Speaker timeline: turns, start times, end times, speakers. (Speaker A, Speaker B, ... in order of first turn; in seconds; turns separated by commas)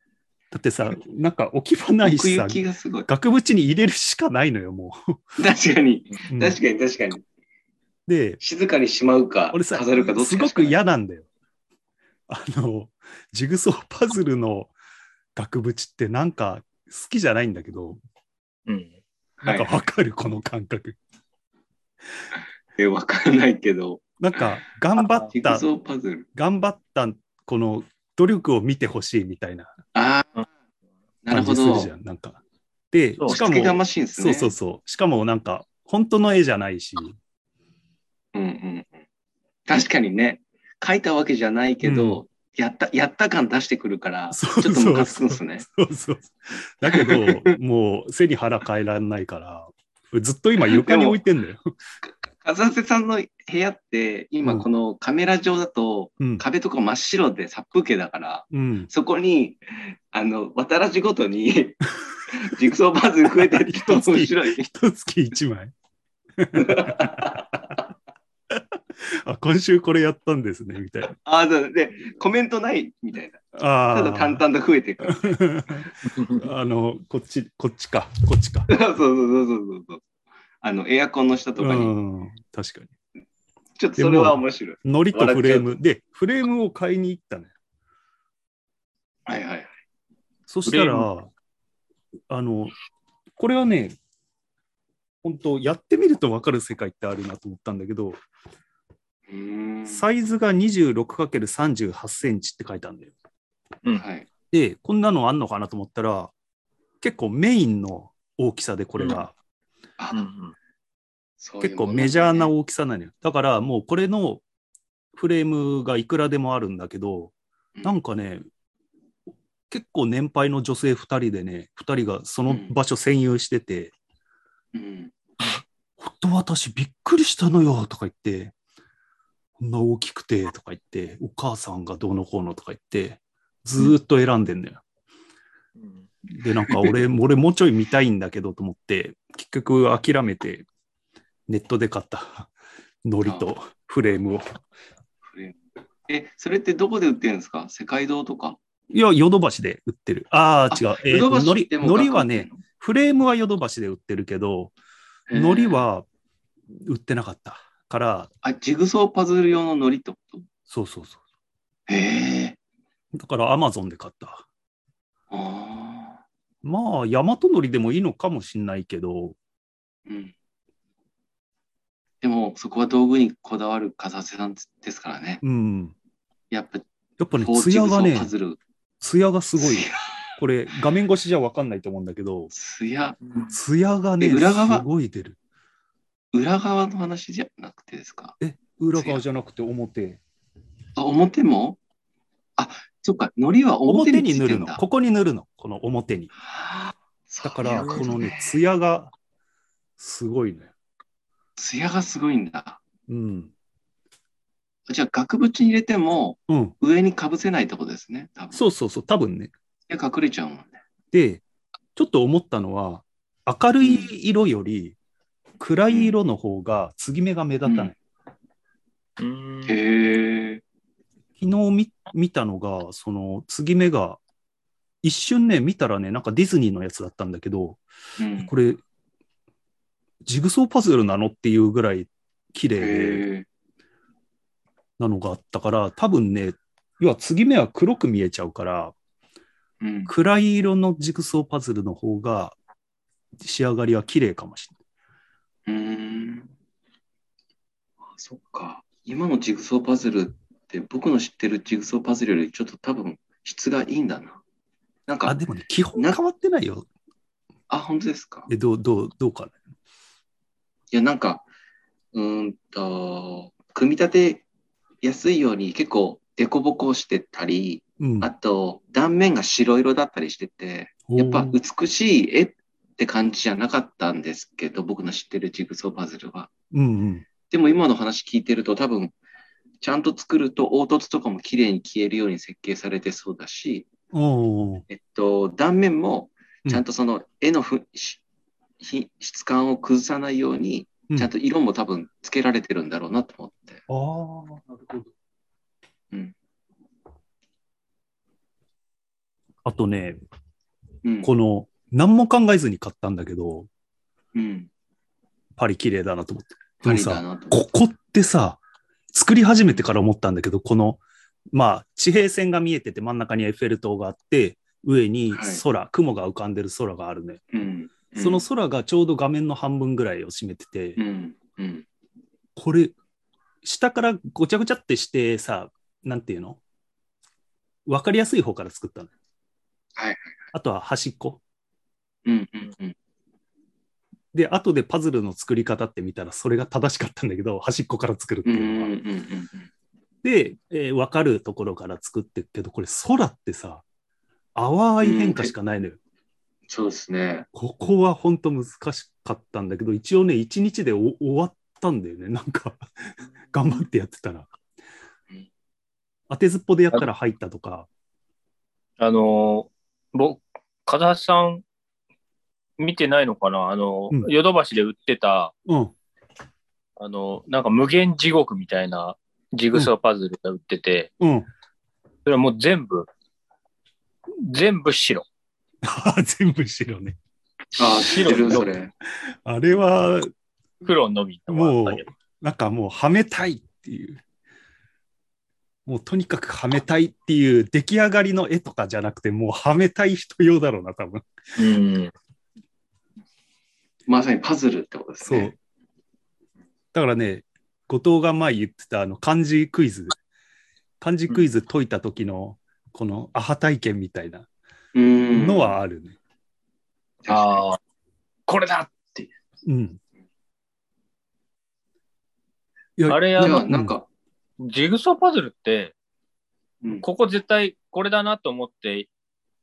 Speaker A: 0.5-5.2, Speaker B: 2.0-3.1, Speaker B: 5.4-7.2, Speaker A: 6.3-6.6, Speaker A: 8.1-8.4, Speaker B: 8.4-10.8, Speaker A: 9.5-11.3, Speaker A: 12.3-14.7, Speaker A: 15.4-18.0, Speaker C: 18.7-18.9, Speaker B: 19.4-19.7, Speaker A: 19.4-21.0, Speaker B: 22.8-24.0, Speaker A: 24.2-25.6, Speaker B: 25.2-26.3, Speaker A: 26.3-29.7, Speaker B: 29.9-30.4, Speaker B: 31.2-31.9, Speaker A: 31.3-32.4, Speaker A: 32.9-37.2, Speaker C: 33.2-33.4, Speaker B: 33.3-34.5, Speaker B: 38.3-38.9, Speaker B: 39.7-45.6, Speaker A: 41.8-42.2, Speaker A: 44.3-51.7, Speaker B: 46.9-47.5, Speaker B: 50.6-51.2, Speaker B: 52.0-64.7, Speaker A: 58.5-58.9, Speaker A: 63.4-65.7, Speaker A: 66.4-67.5, Speaker B: 66.6-67.5, Speaker A: 68.5-71.1, Speaker B: 71.1-75.4, Speaker A: 73.5-74.4, Speaker A: 75.0-78.7, Speaker B: 78.7-80.0, Speaker B: 80.6-81.9, Speaker A: 81.6-82.9, Speaker B: 83.8-85.7, Speaker A: 84.0-87.5, Speaker B: 89.3-89.7, Speaker A: 90.5-91.3, Speaker C: 90.7-91.1, Speaker A: 92.3-92.7, Speaker A: 93.4-94.0, Speaker A: 95.2-98.2, Speaker B: 99.3-100.0, Speaker A: 99.9-103.1, Speaker B: 103.9-104.3, Speaker A: 104.5-106.3, Speaker A: 107.0-109.3, Speaker C: 109.0-109.3, Speaker B: 110.0-110.2, Speaker C: 110.1-110.5, Speaker B: 111.4-112.5, Speaker A: 111.6-114.4, Speaker A: 115.2-118.4, Speaker A: 119.7-123.9, Speaker B: 122.5-122.8, Speaker B: 124.7-125.1, Speaker A: 126.0-128.5, Speaker A: 129.6-134.8, Speaker A: 136.4-140.7, Speaker A: 141.5-142.5, Speaker A: 143.1-144.6, Speaker B: 145.2-145.6, Speaker B: 146.1-148.6, Speaker A: 148.9-154.7, Speaker B: 150.7-152.6, Speaker B: 155.3-155.8, Speaker A: 155.3-156.1, Speaker A: 156.8-158.3, Speaker B: 158.4-160.5, Speaker A: 160.7-161.2, Speaker B: 161.9-162.6, Speaker A: 163.2-164.4, Speaker B: 165.3-166.2, Speaker A: 166.6-169.4, Speaker B: 170.1-170.3, Speaker B: 172.2-175.4, Speaker A: 175.4-175.9, Speaker B: 176.5-176.8, Speaker A: 177.2-178.3, Speaker B: 177.4-178.6, Speaker A: 179.0-182.5, Speaker B: 179.6-180.2, Speaker B: 182.5-183.2, Speaker A: 183.5-185.4, Speaker B: 184.2-184.8, Speaker B: 186.3-188.4, Speaker A: 188.4-190.2, Speaker B: 188.9-189.2, Speaker B: 191.0-191.8, Speaker B: 192.6-194.8, Speaker A: 193.9-196.3, Speaker B: 196.4-198.6, Speaker A: 197.4-199.1, Speaker A: 200.0-200.7, Speaker B: 201.6-202.8, Speaker A: 203.1-203.5, Speaker B: 204.9-208.6, Speaker A: 206.5-206.7, Speaker A: 208.5-209.5, Speaker B: 209.9-210.8, Speaker A: 211.1-211.4, Speaker A: 212.0-215.0, Speaker B: 213.8-214.1, Speaker A: 215.6-218.0, Speaker B: 217.7-217.9, Speaker C: 219.2-219.8, Speaker B: 219.7-220.6, Speaker A: 221.4-224.2, Speaker A: 225.0-227.8, Speaker B: 228.2-228.5, Speaker A: 228.4-228.8, Speaker A: 230.3-233.2, Speaker B: 232.8-233.5, Speaker A: 235.0-238.9, Speaker B: 239.8-240.1, Speaker A: 240.1-242.6, Speaker A: 243.4-244.7, Speaker B: 245.7-246.5, Speaker B: 248.1-254.4, Speaker B: 255.1-255.3, Speaker A: 255.3-256.9, Speaker B: 257.7-258.5, Speaker A: 258.5-259.5, Speaker B: 260.9-261.4, Speaker B: 262.1-264.4, Speaker B: 265.0-276.5, Speaker A: 268.0-268.3, Speaker A: 271.1-271.6, Speaker A: 276.7-277.2, Speaker B: 277.5-279.1, Speaker B: 279.8-283.9, Speaker A: 284.1-284.9, Speaker B: 284.9-288.2, Speaker B: 288.8-293.8, Speaker A: 293.9-295.1, Speaker A: 299.6-300.2, Speaker B: 301.0-301.3, Speaker A: 301.2-303.7, Speaker B: 304.3-304.7, Speaker A: 305.6-308.6, Speaker B: 306.8-307.6, Speaker A: 309.1-311.0, Speaker A: 311.5-317.4, Speaker B: 315.3-315.6, Speaker B: 317.5-318.4, Speaker A: 318.2-321.0, Speaker B: 321.0-321.9, Speaker A: 322.6-322.9, Speaker A: 323.6-326.6, Speaker A: 327.9-329.1, Speaker B: 330.0-330.4, Speaker A: 330.5-331.4, Speaker B: 332.2-332.9, Speaker A: 334.3-338.9, Speaker B: 338.4-339.7, Speaker A: 340.2-343.8, Speaker A: 344.6-346.0, Speaker B: 345.0-345.5, Speaker B: 346.7-347.5, Speaker A: 347.5-352.9, Speaker A: 353.5-354.5, Speaker A: 356.3-357.9, Speaker C: 359.0-361.6, Speaker C: 362.8-365.5, Speaker A: 365.7-365.9, Speaker C: 367.0-371.1, Speaker A: 371.2-371.5, Speaker C: 372.3-373.1, Speaker C: 374.4-375.2, Speaker A: 375.8-377.2, Speaker B: 377.8-378.9, Speaker C: 378.0-378.7, Speaker A: 378.3-378.7, Speaker A: 379.4-380.3, Speaker C: 380.8-382.1, Speaker A: 381.5-384.2, Speaker A: 385.9-391.2, Speaker C: 391.6-392.1, Speaker B: 394.1-395.5, Speaker A: 395.2-395.6, Speaker A: 396.9-400.2, Speaker A: 401.0-404.5, Speaker B: 404.9-405.8, Speaker A: 405.4-406.2, Speaker B: 407.2-407.6, Speaker C: 407.3-407.8, Speaker C: 408.5-409.3, Speaker A: 409.7-410.0, Speaker A: 413.0-413.9, Speaker C: 413.1-413.6, Speaker B: 413.4-414.1, Speaker C: 414.6-415.9, Speaker C: 417.0-419.1